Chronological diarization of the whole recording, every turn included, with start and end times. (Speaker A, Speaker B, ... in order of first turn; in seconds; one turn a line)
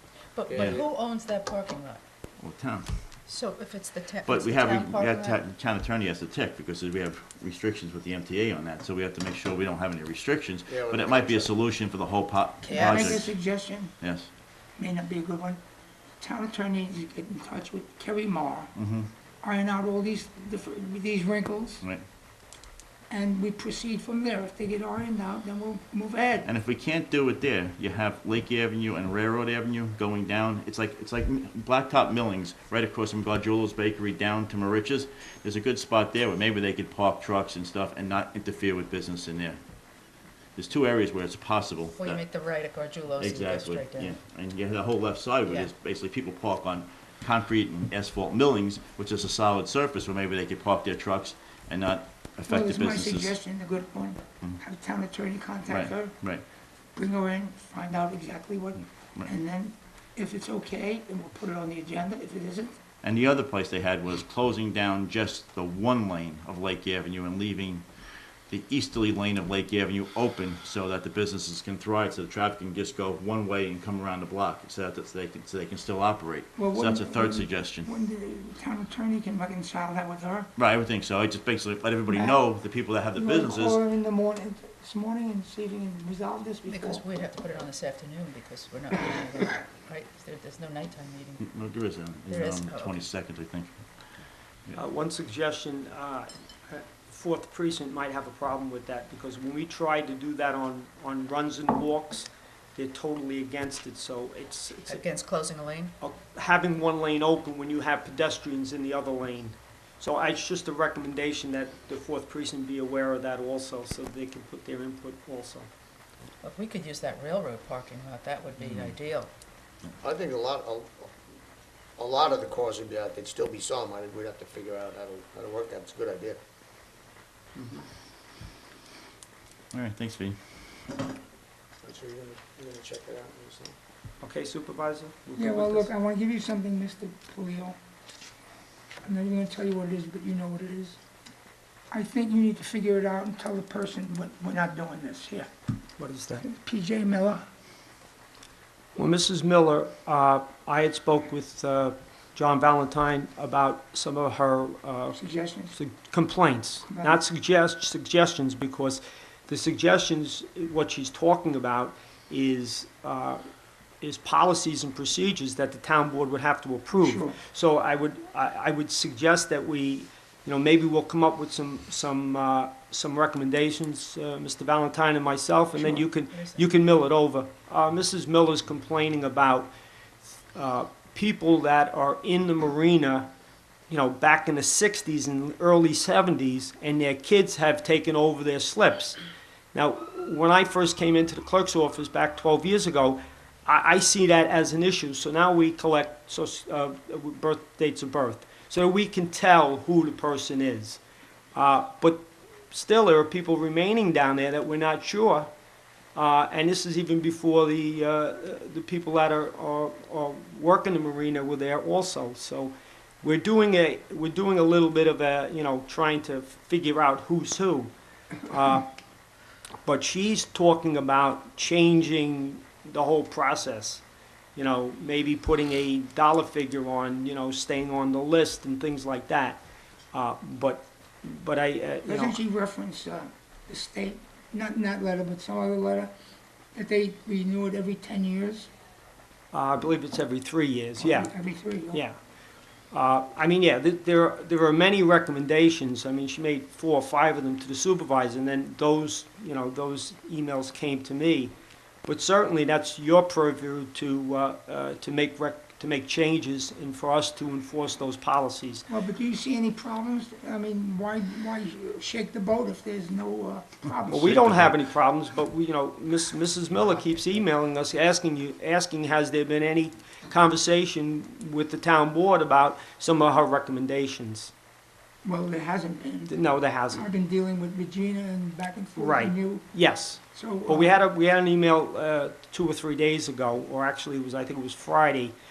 Speaker A: 0.3-2.0
Speaker B: 0.5-0.9
Speaker C: 2.4-2.9
Speaker A: 3.3-5.4
Speaker C: 4.2-13.3
Speaker B: 10.7-11.5
Speaker A: 12.6-13.1
Speaker D: 12.7-13.9
Speaker C: 14.0-14.3
Speaker D: 14.8-15.6
Speaker D: 16.2-18.7
Speaker C: 18.8-19.1
Speaker D: 19.4-21.8
Speaker D: 23.1-26.5
Speaker C: 26.4-39.6
Speaker C: 40.5-42.2
Speaker A: 41.9-44.1
Speaker C: 43.2-53.3
Speaker D: 52.5-56.1
Speaker C: 55.7-56.4
Speaker D: 57.0-62.8
Speaker C: 63.0-67.8
Speaker C: 68.5-77.9
Speaker D: 76.5-80.5
Speaker C: 80.5-83.8
Speaker D: 82.1-82.4
Speaker D: 83.1-87.0
Speaker A: 86.7-91.5
Speaker C: 91.4-93.7
Speaker A: 92.3-93.0
Speaker E: 94.7-105.0
Speaker A: 104.9-105.9
Speaker E: 106.0-115.7
Speaker A: 116.4-119.3
Speaker C: 118.6-119.0
Speaker B: 120.0-121.1
Speaker B: 122.0-126.4
Speaker E: 127.5-127.8
Speaker C: 129.7-130.4
Speaker B: 131.8-133.8
Speaker E: 134.2-135.9
Speaker D: 135.4-137.8
Speaker D: 139.0-141.0
Speaker D: 141.9-145.5
Speaker E: 146.0-146.4
Speaker D: 146.4-147.4
Speaker E: 148.9-155.2
Speaker D: 155.1-155.7
Speaker E: 155.7-163.4
Speaker D: 156.9-157.2
Speaker E: 164.0-179.7
Speaker D: 167.0-167.4
Speaker D: 175.8-176.1
Speaker A: 176.3-176.6
Speaker E: 180.5-183.3
Speaker E: 183.9-189.2
Speaker E: 189.7-201.0
Speaker E: 201.5-205.5
Speaker E: 206.1-217.9
Speaker E: 218.4-218.9
Speaker E: 219.8-224.0
Speaker E: 224.5-232.3
Speaker D: 232.0-236.1
Speaker D: 236.7-238.7
Speaker E: 239.5-241.3
Speaker D: 241.0-242.0
Speaker E: 241.9-242.2
Speaker E: 242.9-258.9
Speaker D: 258.9-264.3
Speaker E: 264.1-274.5
Speaker C: 264.2-264.8
Speaker D: 275.2-279.7
Speaker E: 276.3-277.0
Speaker E: 279.0-285.3
Speaker D: 280.3-281.0